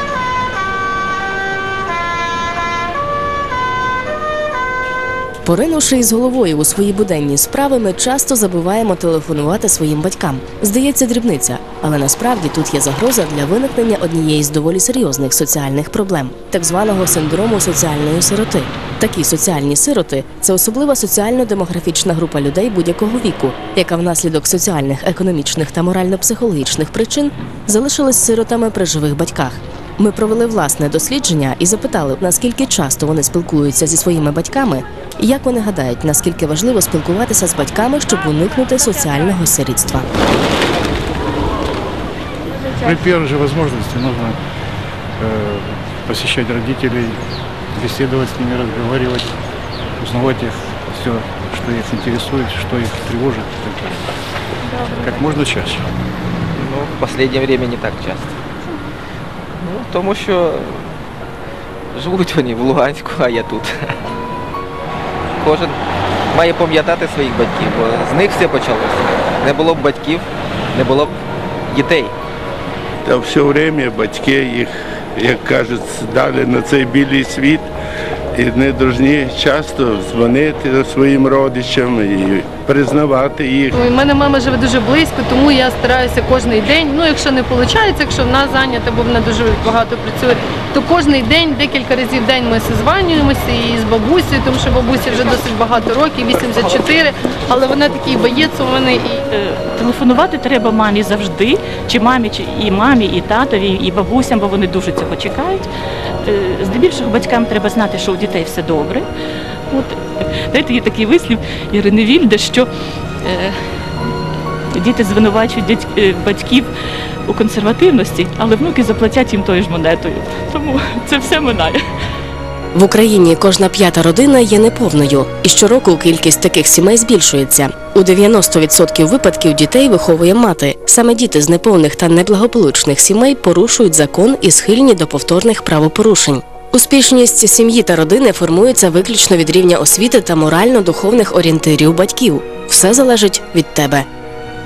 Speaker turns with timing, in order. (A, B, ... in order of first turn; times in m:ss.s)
0:05.4-0:40.1 A
0:42.7-0:44.4 B
0:45.2-0:47.2 B
0:47.7-0:49.3 B
0:50.0-0:54.1 B
0:54.7-0:55.9 B
0:56.5-0:58.4 C
0:59.6-1:01.0 C
1:01.9-1:04.0 C
1:05.4-1:05.8 C
1:06.3-1:12.1 C
1:13.0-1:17.7 D
1:18.3-1:23.8 D
1:23.8-1:39.2 E
1:39.3-1:45.7 F
1:46.2-1:49.1 F
1:49.7-1:52.7 F
1:53.2-1:53.6 F
1:54.7-1:56.7 F
1:57.3-2:01.8 F
2:02.7-2:24.0 A